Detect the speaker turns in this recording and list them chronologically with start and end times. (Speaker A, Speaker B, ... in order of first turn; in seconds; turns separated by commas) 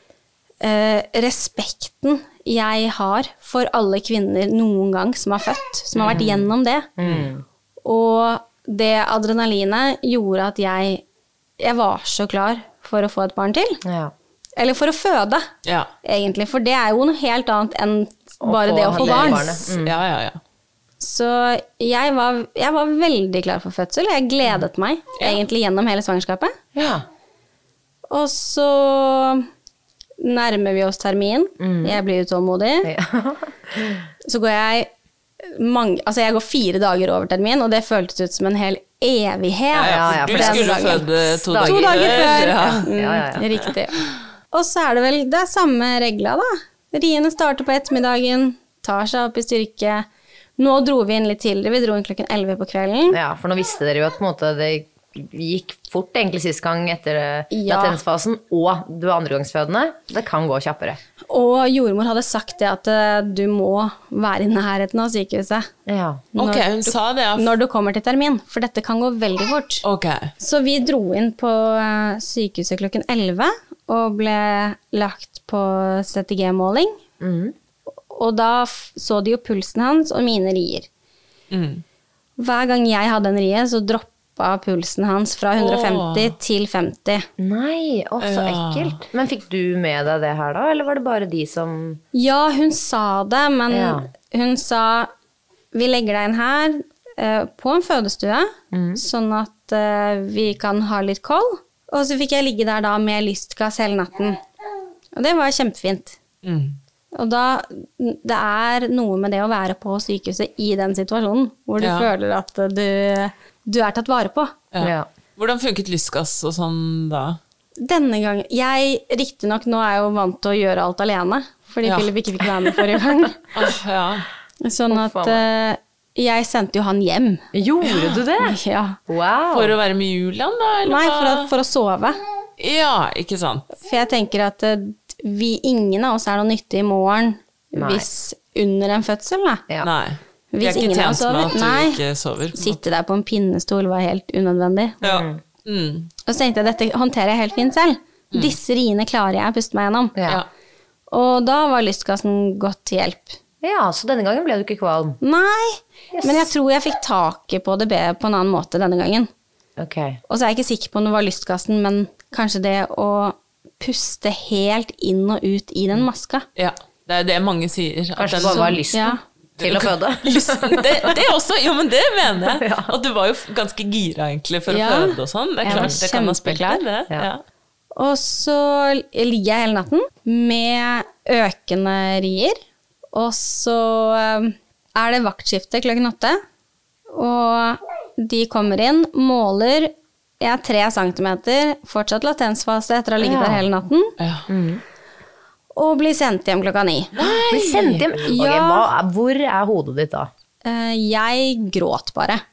Speaker A: 0.6-6.9, Speaker B: 6.0-7.4, Speaker C: 7.0-7.3, Speaker A: 7.8-11.0, Speaker A: 11.6-13.8, Speaker B: 13.8-14.1, Speaker A: 14.6-15.5, Speaker A: 16.0-19.6, Speaker B: 18.4-19.9, Speaker C: 19.0-20.4, Speaker A: 21.0-26.5, Speaker B: 26.7-27.0, Speaker A: 28.1-29.4, Speaker A: 30.2-32.9, Speaker B: 31.6-32.0, Speaker B: 32.8-34.0, Speaker A: 34.2-34.9, Speaker A: 35.4-41.1, Speaker B: 39.7-43.5, Speaker C: 39.8-42.9, Speaker A: 41.6-44.0, Speaker A: 44.5-50.0, Speaker A: 50.6-53.2, Speaker B: 53.1-61.0, Speaker A: 57.5-58.0, Speaker A: 61.3-65.7, Speaker B: 65.9-66.2, Speaker A: 66.3-69.8, Speaker C: 66.4-67.5, Speaker C: 69.8-70.3, Speaker A: 70.4-77.0, Speaker B: 77.2-77.5, Speaker A: 78.1-80.9, Speaker C: 81.5-81.8, Speaker A: 82.4-87.2, Speaker C: 85.6-86.3, Speaker B: 87.4-92.0, Speaker C: 88.2-89.0, Speaker A: 92.1-95.1, Speaker B: 93.7-94.1, Speaker A: 95.7-104.4, Speaker B: 98.7-99.0, Speaker A: 105.2-106.2, Speaker C: 106.4-106.8, Speaker A: 107.1-114.5, Speaker C: 111.8-112.1, Speaker C: 114.7-117.4, Speaker B: 114.8-115.1, Speaker A: 117.8-123.4, Speaker C: 121.8-122.8, Speaker C: 123.5-124.3, Speaker A: 124.6-127.4, Speaker B: 124.9-125.4, Speaker B: 127.5-128.6, Speaker A: 128.4-129.0, Speaker B: 129.1-129.7, Speaker C: 129.5-131.5, Speaker A: 130.9-132.2, Speaker C: 132.6-133.7, Speaker A: 133.8-139.6, Speaker B: 137.7-138.1, Speaker C: 139.8-142.8, Speaker A: 140.5-142.0, Speaker A: 142.5-145.0, Speaker B: 145.0-145.4, Speaker C: 145.0-146.1, Speaker A: 146.3-150.1, Speaker B: 150.2-150.4, Speaker A: 151.1-153.4, Speaker B: 153.6-155.2, Speaker A: 155.2-159.3, Speaker B: 156.1-156.5, Speaker B: 159.8-160.2, Speaker A: 160.3-166.4, Speaker C: 166.6-168.8, Speaker B: 168.2-171.1, Speaker A: 168.5-169.2, Speaker C: 169.6-177.4, Speaker B: 172.4-172.9, Speaker A: 174.7-176.8, Speaker B: 175.7-176.0, Speaker A: 177.9-182.6, Speaker A: 183.1-186.4, Speaker A: 187.1-194.1, Speaker B: 193.2-193.6, Speaker C: 194.2-194.5, Speaker B: 194.5-194.8, Speaker A: 195.7-197.1, Speaker C: 197.1-198.1, Speaker B: 197.5-200.3, Speaker A: 198.3-198.9, Speaker A: 200.6-202.4